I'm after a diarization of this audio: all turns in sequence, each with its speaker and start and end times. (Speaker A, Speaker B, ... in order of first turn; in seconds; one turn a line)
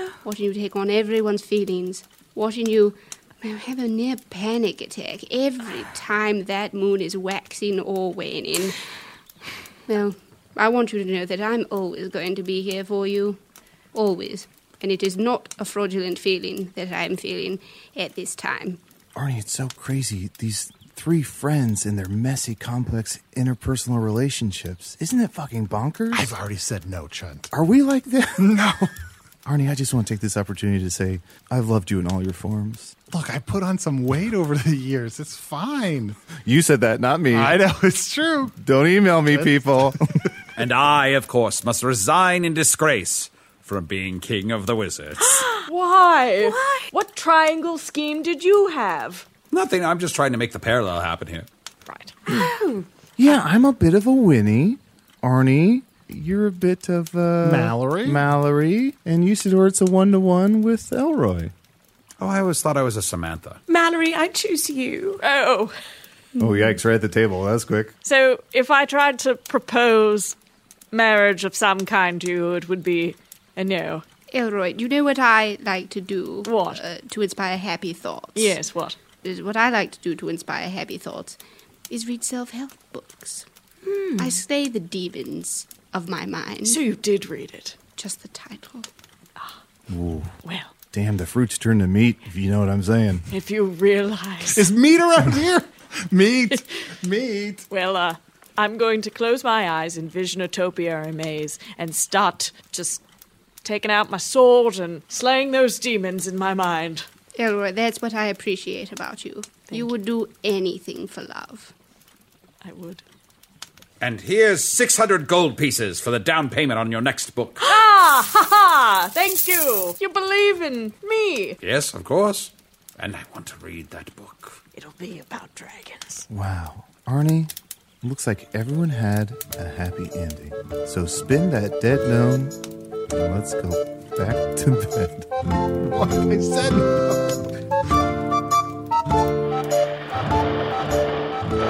Speaker A: 0.2-8.8
Speaker A: 9.9-13.4
Speaker A: 13.9-18.8
Speaker B: 19.1-26.3
Speaker C: 26.1-27.5
Speaker B: 27.5-28.6
Speaker C: 28.4-28.9
Speaker B: 29.4-32.9
Speaker C: 33.1-36.2
Speaker B: 36.4-37.6
Speaker C: 37.3-38.6
Speaker B: 38.6-40.0
Speaker C: 39.3-39.9
Speaker D: 40.6-45.4
Speaker E: 45.3-45.7
Speaker F: 45.6-49.3
Speaker E: 46.4-46.9
Speaker D: 49.5-51.5
Speaker F: 51.9-52.5
Speaker E: 52.3-52.9
Speaker B: 53.2-61.5
Speaker C: 57.4-58.2
Speaker D: 62.2-63.6
Speaker E: 63.7-65.2
Speaker F: 65.2-65.7
Speaker B: 66.4-67.9
Speaker F: 68.0-70.3
Speaker F: 70.9-74.0
Speaker A: 74.3-78.6
Speaker F: 76.4-76.8
Speaker F: 78.4-79.0
Speaker A: 79.2-81.4
Speaker A: 81.9-83.5
Speaker E: 83.8-84.4
Speaker A: 84.2-86.8
Speaker F: 86.7-87.8
Speaker A: 88.0-88.9
Speaker B: 89.9-90.3
Speaker F: 90.4-90.7
Speaker B: 90.9-93.3
Speaker F: 93.3-94.7
Speaker C: 94.5-97.7
Speaker F: 97.7-103.0
Speaker F: 103.6-107.1
Speaker A: 107.3-111.7
Speaker F: 112.6-113.0
Speaker D: 114.0-117.7
Speaker F: 117.6-121.6
Speaker D: 121.6-124.6
Speaker F: 124.8-126.3
Speaker B: 126.3-127.5
Speaker B: 128.0-132.6
Speaker B: 133.1-135.3
Speaker C: 135.9-137.3